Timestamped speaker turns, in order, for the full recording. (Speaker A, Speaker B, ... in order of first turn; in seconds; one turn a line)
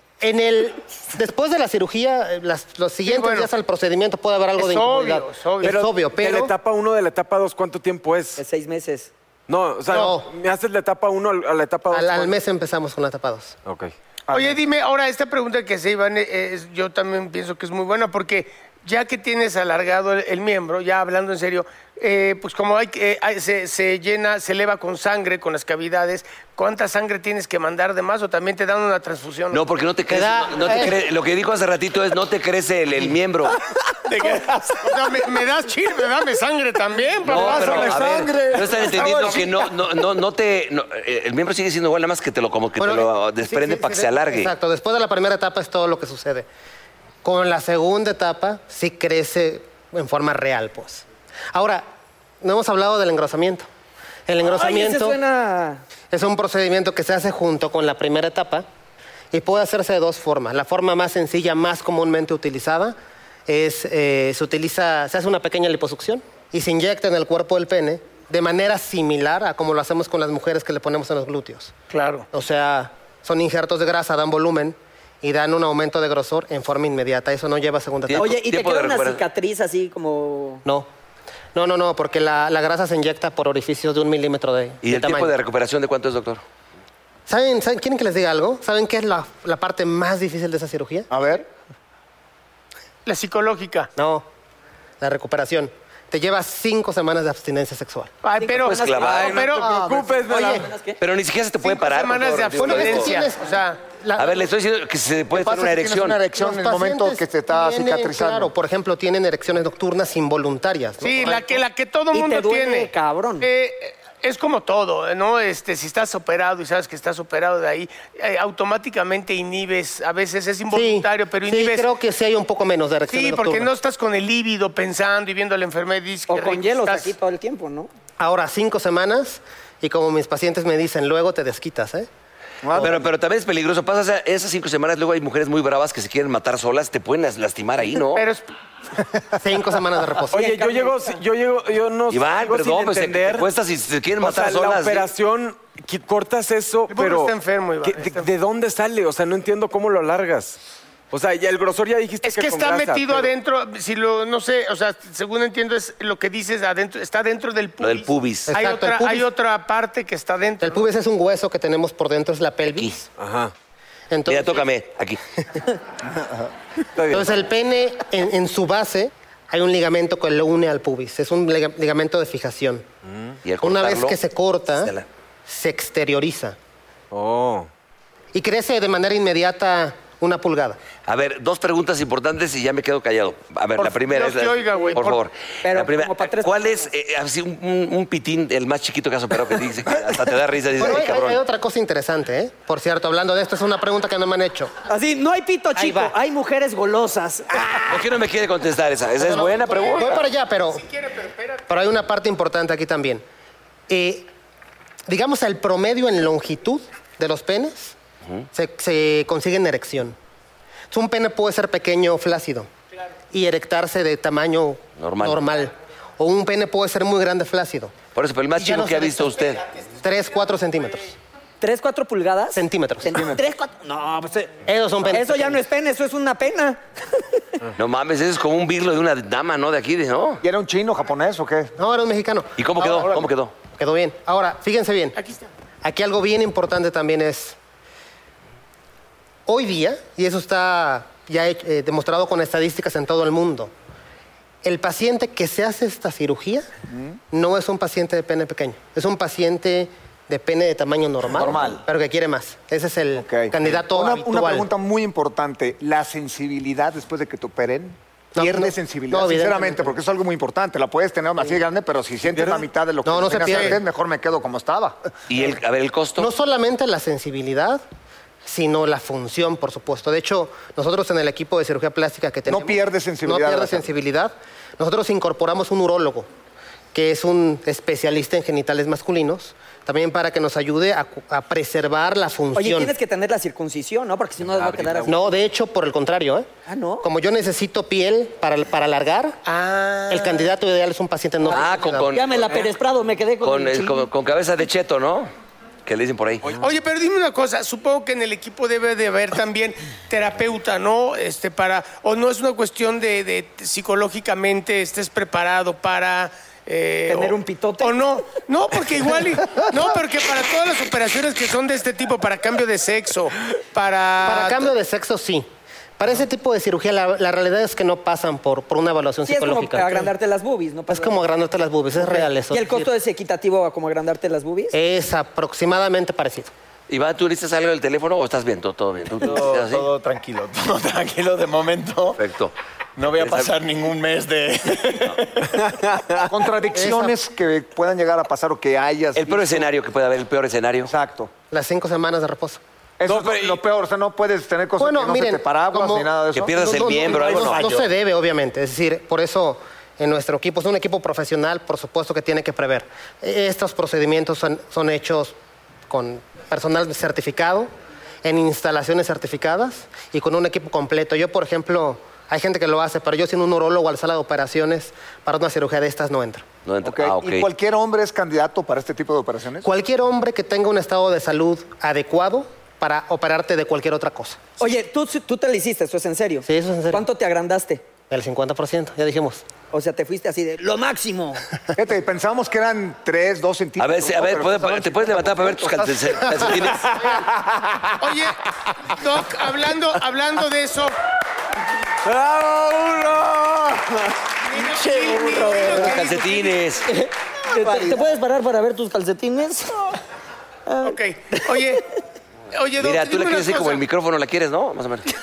Speaker A: 0.2-6.5
Speaker B: 3.0-3.5
Speaker B: 4.6-5.8
Speaker C: 5.6-8.4
Speaker D: 8.4-9.1
Speaker C: 9.5-12.4
Speaker A: 9.9-10.3
Speaker A: 11.9-13.6
Speaker C: 13.6-13.9
Speaker B: 14.3-29.6
Speaker E: 29.5-33.6
Speaker A: 30.1-31.0
Speaker B: 34.1-38.0
Speaker F: 37.2-39.7
Speaker E: 37.2-44.5
Speaker A: 42.8-46.5
Speaker A: 47.2-51.8
Speaker A: 52.4-53.7
Speaker A: 54.3-55.2
Speaker D: 54.4-55.8
Speaker A: 56.1-58.6
Speaker A: 59.3-63.0
Speaker A: 63.5-71.7
Speaker B: 71.9-72.3
Speaker A: 72.3-78.4
Speaker E: 78.1-79.2
Speaker D: 78.2-80.6
Speaker A: 81.5-85.3
Speaker E: 84.8-86.4
Speaker A: 87.3-91.1
Speaker F: 91.1-91.5
Speaker B: 93.0-93.9
Speaker A: 94.0-94.2
Speaker A: 95.0-98.1
Speaker B: 98.2-99.8
Speaker D: 98.3-99.3
Speaker E: 98.5-99.4
Speaker C: 99.0-100.7
Speaker F: 99.5-100.2
Speaker D: 100.3-101.0
Speaker A: 100.3-100.6
Speaker E: 101.0-103.2
Speaker B: 101.6-103.8
Speaker A: 102.6-104.4
Speaker E: 104.2-106.2
Speaker F: 105.3-108.5
Speaker A: 106.3-111.6
Speaker B: 111.0-121.9
Speaker D: 112.1-113.5
Speaker A: 120.7-123.7
Speaker B: 123.1-127.1
Speaker D: 126.3-127.9
Speaker A: 128.2-132.1
Speaker F: 132.6-133.0
Speaker E: 132.8-138.3
Speaker B: 138.1-138.5
Speaker A: 139.4-140.4
Speaker C: 140.3-143.5
Speaker D: 140.3-141.2
Speaker E: 142.1-145.1
Speaker C: 144.2-150.6
Speaker B: 146.9-148.3
Speaker C: 151.1-153.3
Speaker B: 152.2-160.8
Speaker E: 157.8-158.5
Speaker A: 158.5-159.3
Speaker A: 160.6-163.1
Speaker C: 163.2-163.5
Speaker A: 164.1-164.7
Speaker E: 164.3-165.2
Speaker C: 166.9-167.3
Speaker A: 167.1-172.8
Speaker C: 173.1-173.4
Speaker E: 173.4-174.2
Speaker A: 173.6-174.9
Speaker E: 174.8-175.0
Speaker A: 175.5-176.6
Speaker C: 177.1-177.7
Speaker A: 178.3-180.8
Speaker E: 181.1-191.4
Speaker B: 183.8-185.2
Speaker D: 185.6-186.8
Speaker A: 190.8-194.7
Speaker D: 194.9-198.0
Speaker A: 195.8-196.1
Speaker E: 197.9-200.2
Speaker A: 199.2-200.9
Speaker B: 200.9-201.6
Speaker A: 201.7-203.2
Speaker A: 203.9-204.3
Speaker A: 205.1-207.9
Speaker A: 208.5-210.2
Speaker A: 210.9-212.7
Speaker A: 213.3-218.0
Speaker E: 215.0-215.4
Speaker E: 218.1-219.6
Speaker A: 218.6-221.1
Speaker D: 221.6-224.5
Speaker A: 222.5-223.2
Speaker F: 223.1-223.4
Speaker A: 224.6-225.6
Speaker D: 225.1-227.4
Speaker E: 227.8-230.4
Speaker F: 230.4-231.7
Speaker A: 231.8-235.2
Speaker E: 232.6-233.5
Speaker B: 235.2-235.5
Speaker A: 235.8-237.6
Speaker A: 239.5-243.7
Speaker A: 244.6-246.7
Speaker F: 246.9-247.2
Speaker A: 247.3-254.7
Speaker F: 251.3-251.8
Speaker F: 253.2-265.0
Speaker A: 258.3-260.0
Speaker C: 262.3-262.6
Speaker A: 263.0-263.8
Speaker E: 265.3-266.3
Speaker A: 266.2-267.8
Speaker A: 268.4-276.3
Speaker F: 272.4-273.9
Speaker A: 276.9-282.9
Speaker D: 282.5-285.1
Speaker C: 284.5-285.4
Speaker A: 285.1-286.4
Speaker D: 286.7-287.1
Speaker A: 287.0-289.4
Speaker B: 289.4-290.4
Speaker A: 290.1-292.1
Speaker D: 291.5-294.1
Speaker E: 291.5-292.7
Speaker E: 293.4-295.3
Speaker E: 295.9-296.6
Speaker B: 296.6-314.7
Speaker D: 307.1-308.2
Speaker A: 314.2-320.1
Speaker D: 319.3-321.2
Speaker A: 320.9-322.9
Speaker D: 321.9-324.7
Speaker A: 324.7-326.5
Speaker E: 326.9-329.9
Speaker G: 329.2-332.2
Speaker E: 332.2-332.5
Speaker G: 333.0-335.6
Speaker E: 333.2-333.5
Speaker C: 335.6-336.3
Speaker F: 336.2-339.7
Speaker A: 336.7-337.1
Speaker E: 339.1-340.9
Speaker F: 340.9-341.3
Speaker A: 341.5-342.6
Speaker F: 343.0-346.9
Speaker C: 343.1-343.6
Speaker A: 344.8-355.3
Speaker E: 346.4-347.7
Speaker G: 346.6-347.8
Speaker A: 355.9-357.7
Speaker A: 358.2-366.4
Speaker E: 366.6-367.5
Speaker F: 366.8-369.7
Speaker A: 369.6-374.4
Speaker D: 374.6-377.8
Speaker A: 376.4-377.0
Speaker A: 378.1-379.4
Speaker D: 379.7-381.4
Speaker F: 381.7-386.7
Speaker E: 383.8-387.0
Speaker B: 388.0-388.4
Speaker B: 388.9-390.9
Speaker C: 392.0-393.9
Speaker B: 394.4-396.6
Speaker G: 394.7-396.0
Speaker D: 395.1-395.7
Speaker E: 395.7-396.9
Speaker D: 396.8-400.0
Speaker G: 397.5-398.0
Speaker D: 400.7-401.5
Speaker B: 400.8-401.8
Speaker B: 402.5-403.8
Speaker E: 402.8-405.1